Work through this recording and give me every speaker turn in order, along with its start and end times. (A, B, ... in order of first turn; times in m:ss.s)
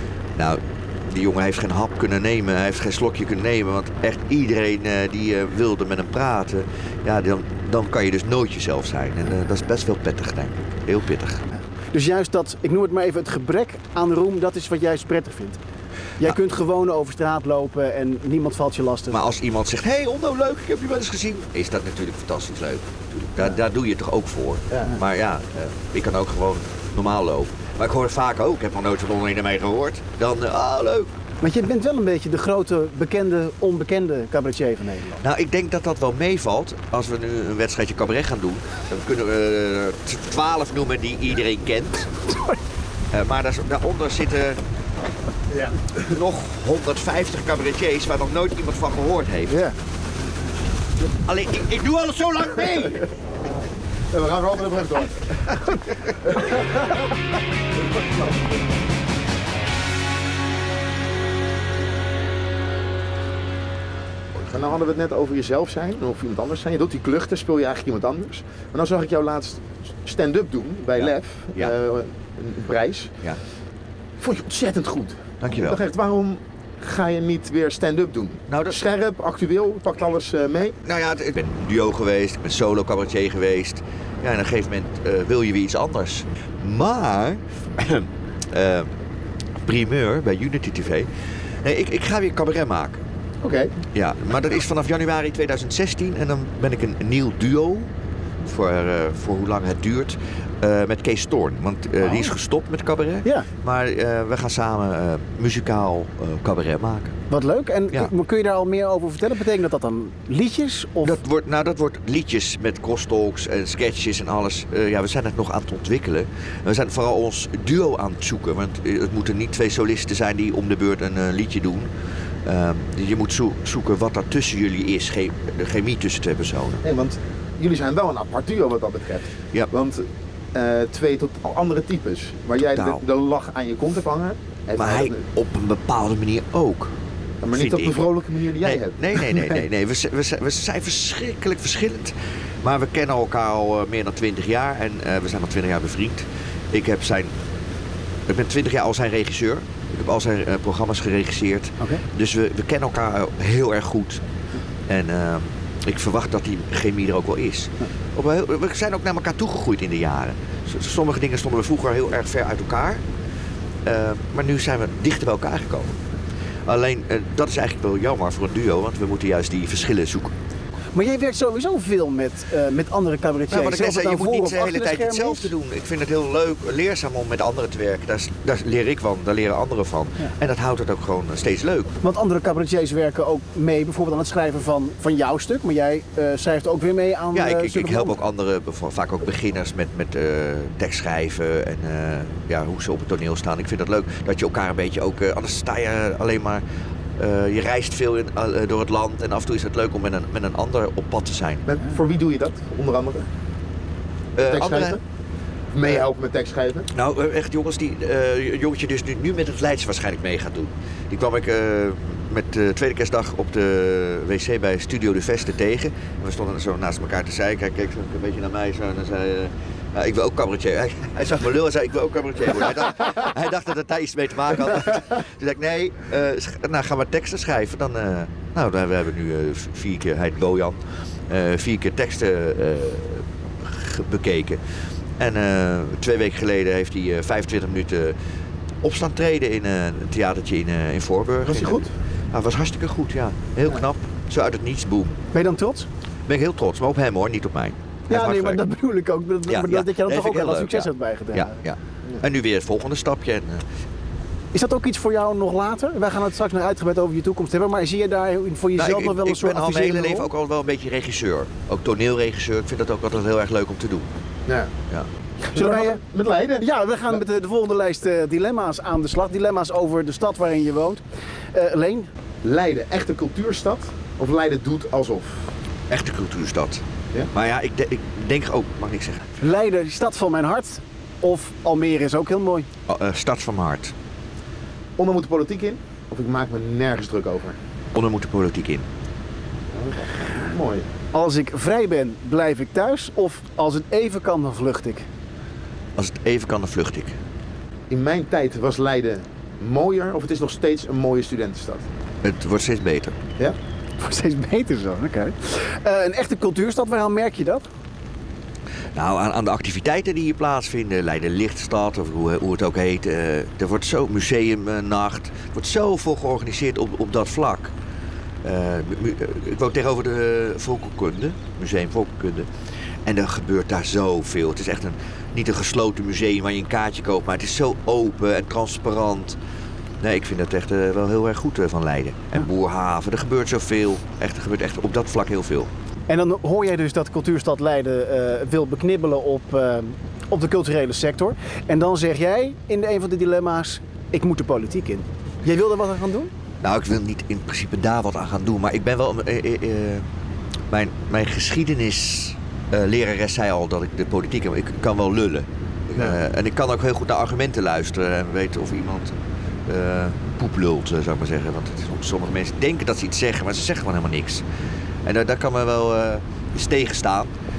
0:00.4-0:11.4 A
0:11.9-0:15.6 B
0:16.2-0:19.3 B
0:19.1-0:31.1 A
0:31.4-0:35.2 B
0:35.2-0:42.1 A
0:42.3-0:42.6 B
0:43.1-0:44.6 A
0:45.5-0:45.8 C
0:46.0-0:49.6 A
0:49.5-0:49.8 B
0:51.2-0:53.1 A
0:54.1-0:55.4 C
0:56.2-0:57.0 C
0:58.0-0:58.6 C
1:04.4-1:13.2 C
1:11.1-1:11.7 A
1:14.2-1:20.8 C
1:15.4-1:15.8 A
1:18.5-1:18.8 A
1:20.8-1:28.9 A
1:29.6-1:31.1 A
1:31.6-1:33.0 A
1:33.4-1:33.7 C
1:33.9-1:37.9 A
1:38.4-1:47.2 A
1:42.0-1:42.3 B
1:47.3-1:51.2 B
1:51.0-2:01.9 A
2:02.4-2:06.8 A
2:06.8-2:15.2 C
2:12.8-2:13.0 A
2:14.8-2:17.0 A
2:17.4-2:19.5 C
2:17.5-2:18.1 A
2:18.6-2:27.3 A
2:28.3-2:34.2 A
2:34.9-2:43.0 A
2:43.8-2:46.0 A
2:46.7-2:50.3 A
2:51.0-2:55.5 B
2:53.5-3:01.9 A
3:02.0-3:08.2 B
3:07.3-3:16.6 A
3:17.2-3:21.7 A
3:21.7-3:23.3 C
3:24.4-3:25.0 A
3:24.4-3:25.0 C
3:25.7-3:26.9 C
3:26.9-3:58.2 A
3:58.8-4:01.8 A
4:01.4-4:01.9 C
4:02.3-4:05.2 A
4:05.3-4:05.9 B
4:06.3-4:08.6 A
4:08.1-4:11.6 B
4:09.5-4:13.6 A
4:14.5-4:20.3 B
4:18.8-4:24.1 A
4:24.5-4:24.7 C
4:25.5-4:26.0 B
4:25.6-4:27.2 C
4:26.6-4:31.0 B
4:31.5-4:32.1 B
4:32.4-4:35.6 C
4:35.9-4:39.4 A
4:39.4-4:42.7 B
4:42.9-4:43.9 A
4:45.0-4:47.6 C
4:47.9-4:48.9 A
4:49.7-4:50.9 C
4:51.1-4:55.1 B
4:56.0-4:57.2 A
4:57.9-5:01.9 C
5:02.2-5:03.2 A
5:04.0-5:07.7 B
5:09.0-5:17.7 A
5:18.4-5:29.4 A
5:30.0-5:35.7 A
5:36.1-5:46.3 B
5:46.6-5:50.0 A
5:50.7-5:59.2 A
5:59.7-6:04.4 A
6:05.0-6:07.3 A